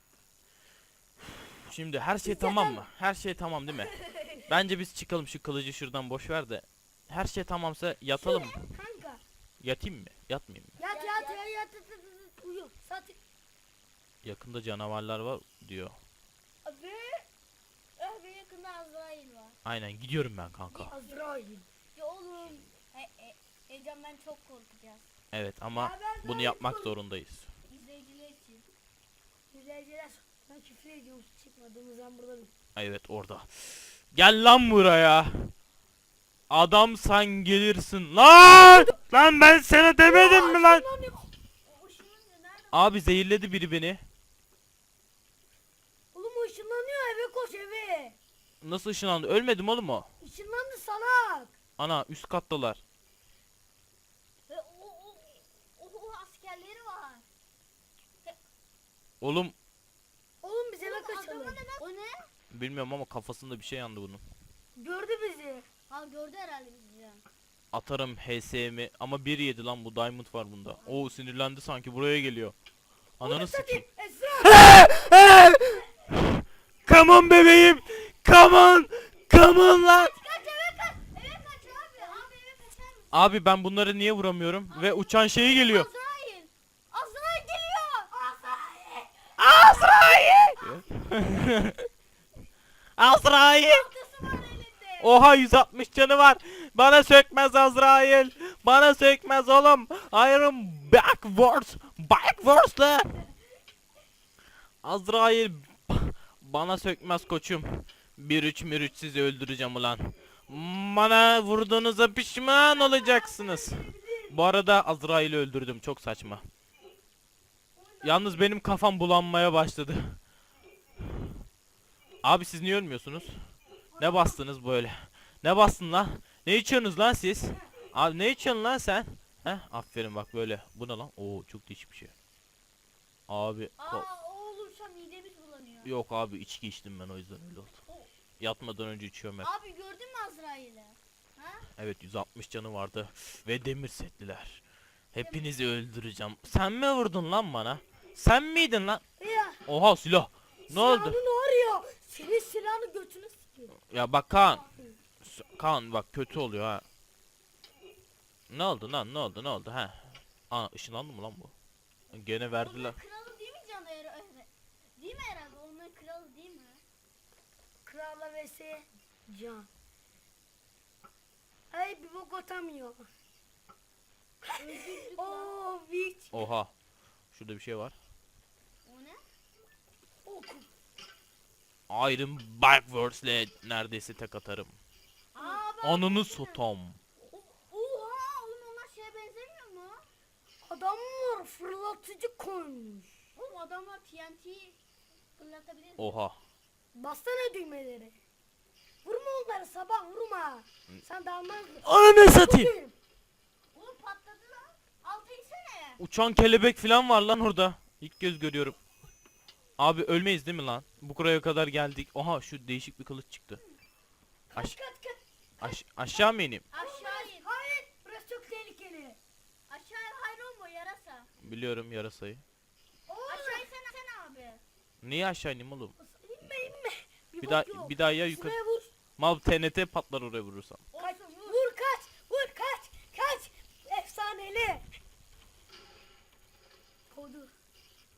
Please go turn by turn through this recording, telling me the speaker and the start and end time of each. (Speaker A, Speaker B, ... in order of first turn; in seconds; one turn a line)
Speaker A: 1.6-8.6
Speaker B: 2.2-2.8
Speaker B: 8.2-9.2
Speaker A: 9.6-10.8
Speaker B: 10.8-13.2
Speaker C: 10.9-11.4
Speaker A: 14.2-16.0
Speaker C: 16.6-17.2
Speaker C: 18.0-19.6
Speaker A: 19.6-20.9
Speaker C: 20.7-21.2
Speaker B: 20.9-21.6
Speaker C: 21.9-25.1
Speaker A: 25.3-27.5
Speaker B: 25.8-26.9
Speaker C: 27.7-28.6
Speaker B: 29.5-32.5
Speaker A: 32.8-35.5
Speaker A: 36.5-40.9
Speaker B: 38.6-38.9
Speaker B: 40.0-41.3
Speaker C: 41.6-43.0
Speaker A: 42.7-44.0
Speaker B: 46.1-48.1
Speaker A: 48.6-50.1
Speaker B: 50.2-51.5
Speaker A: 51.8-52.8
Speaker C: 54.5-57.2
Speaker A: 59.2-59.5
Speaker B: 60.4-61.6
Speaker C: 60.8-62.3
Speaker A: 62.5-64.2
Speaker B: 64.8-65.7
Speaker C: 65.9-67.2
Speaker A: 67.7-72.5
Speaker C: 70.8-71.1
Speaker A: 73.2-73.8
Speaker B: 73.2-75.1
Speaker A: 74.4-80.1
Speaker C: 79.8-83.3
Speaker B: 81.3-82.2
Speaker A: 83.1-85.9
Speaker C: 84.7-88.3
Speaker B: 88.2-88.9
Speaker A: 89.4-91.8
Speaker A: 93.0-93.9
Speaker C: 93.5-95.2
Speaker A: 95.0-103.1
Speaker A: 104.8-116.4
Speaker B: 112.6-114.3
Speaker B: 117.8-118.4
Speaker A: 118.0-120.2
Speaker A: 122.2-123.4
Speaker B: 124.0-124.3
Speaker A: 124.0-132.1
Speaker A: 133.3-134.1
Speaker C: 133.8-135.9
Speaker A: 135.8-137.8
Speaker A: 138.4-139.5
Speaker C: 139.4-141.7
Speaker A: 141.8-144.6
Speaker A: 145.1-149.0
Speaker C: 145.2-145.5
Speaker B: 149.2-149.6
Speaker A: 149.7-151.2
Speaker B: 150.7-153.7
Speaker A: 153.9-154.6
Speaker B: 154.3-155.0
Speaker A: 155.2-156.8
Speaker A: 158.5-161.5
Speaker A: 162.1-163.0
Speaker C: 162.5-166.8
Speaker B: 167.8-169.7
Speaker B: 171.7-173.1
Speaker C: 174.6-175.6
Speaker B: 175.2-176.4
Speaker A: 176.3-176.7
Speaker A: 177.3-177.9
Speaker C: 178.8-179.2
Speaker B: 180.2-180.7
Speaker A: 181.9-184.8
Speaker C: 185.3-186.6
Speaker B: 185.4-185.7
Speaker A: 185.8-187.0
Speaker C: 187.3-190.0
Speaker B: 190.6-193.1
Speaker C: 193.3-194.8
Speaker C: 195.4-196.2
Speaker A: 196.0-196.4
Speaker B: 196.9-198.2
Speaker B: 199.0-202.9
Speaker A: 201.8-202.7
Speaker C: 203.7-206.0
Speaker A: 206.0-208.8
Speaker A: 209.8-213.6
Speaker B: 214.5-215.8
Speaker A: 215.6-216.6
Speaker C: 216.7-217.5
Speaker B: 216.7-219.2
Speaker C: 219.7-221.3
Speaker A: 221.4-222.4
Speaker B: 223.1-223.7
Speaker C: 223.3-224.6
Speaker A: 225.0-225.9
Speaker B: 226.0-228.9
Speaker A: 227.4-228.6
Speaker A: 229.2-230.8
Speaker C: 230.9-231.6
Speaker B: 231.0-234.8
Speaker B: 237.1-237.5